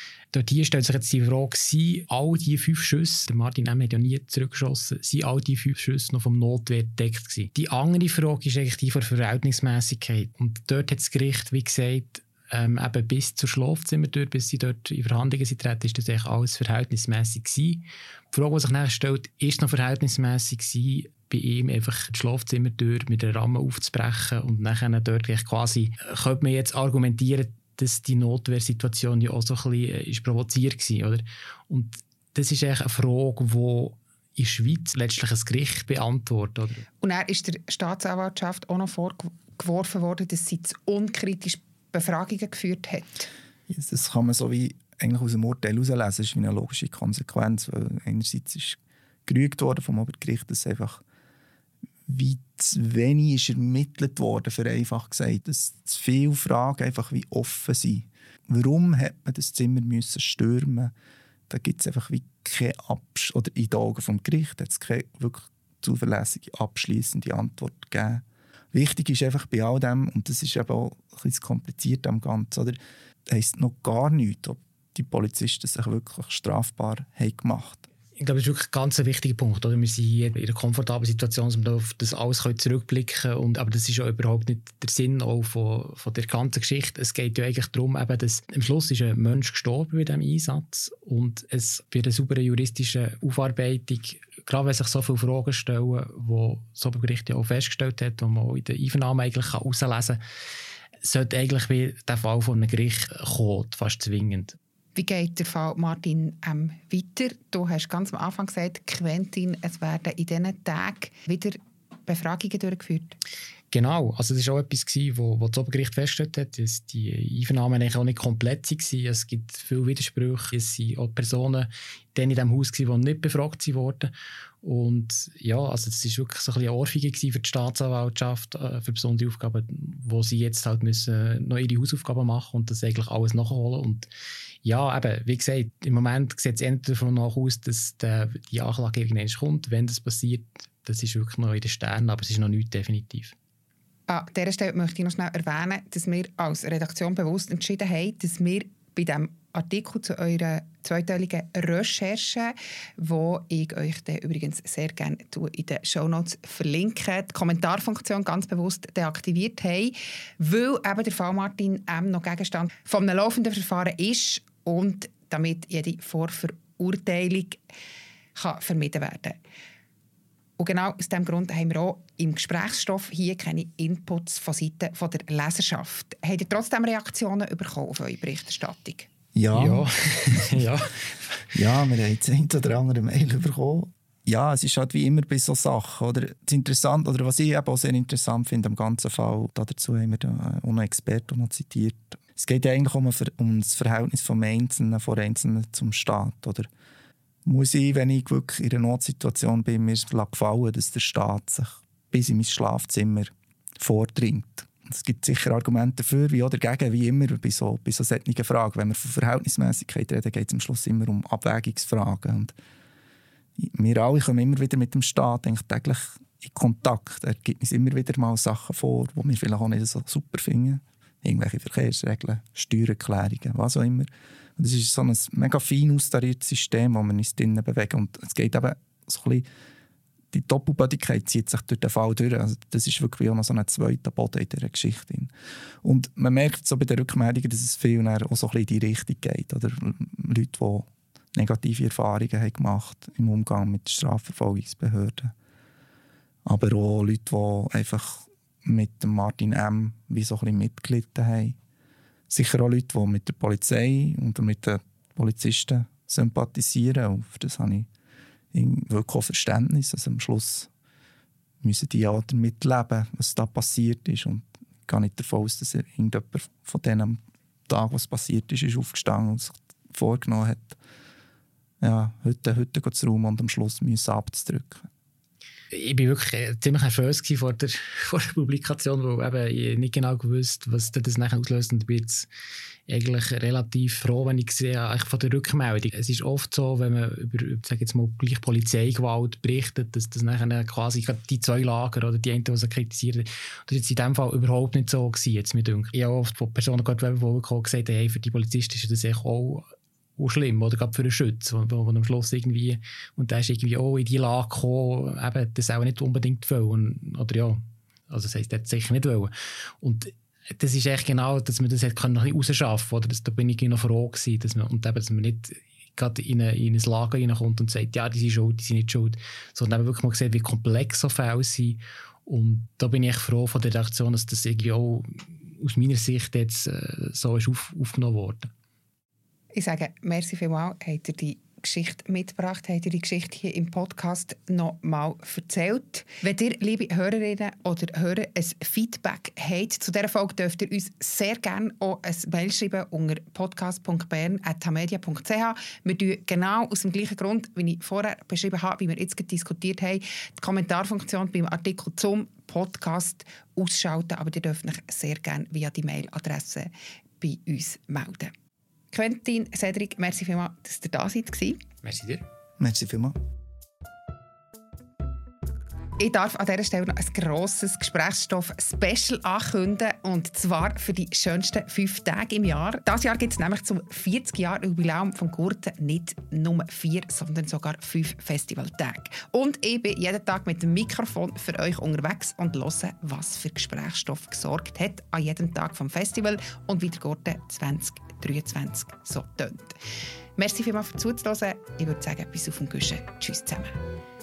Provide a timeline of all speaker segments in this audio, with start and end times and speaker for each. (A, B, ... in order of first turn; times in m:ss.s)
0:00.3-0:36.9 A
0:37.0-0:43.3 B
0:43.7-0:51.0 C
0:52.1-1:00.9 C
1:01.5-1:17.8 C
1:18.2-1:40.2 A
1:41.0-1:44.6 A
1:44.9-1:53.2 B
1:53.7-2:04.1 A
2:04.6-2:14.1 A
2:14.6-2:23.3 A
2:24.1-2:47.6 B
2:48.4-2:49.4 B
2:50.6-2:59.1 B
2:59.3-3:00.7 C
2:59.5-3:01.6 A
3:01.5-3:16.7 C
3:17.4-3:32.5 C
3:33.6-3:49.4 C
3:50.3-3:55.3 C
3:55.8-4:05.3 C
4:06.4-4:11.6 C
4:12.3-4:17.9 C
4:18.5-4:20.7 C
4:21.6-4:30.8 C
4:31.8-4:34.8 C
4:35.7-4:42.3 A
4:42.9-4:59.6 A
5:00.2-5:28.5 A
5:29.5-5:58.3 B
5:58.9-6:01.6 B
6:01.8-6:02.2 A
6:02.6-6:03.1 C
6:06.0-6:29.8 B
6:30.4-6:33.8 B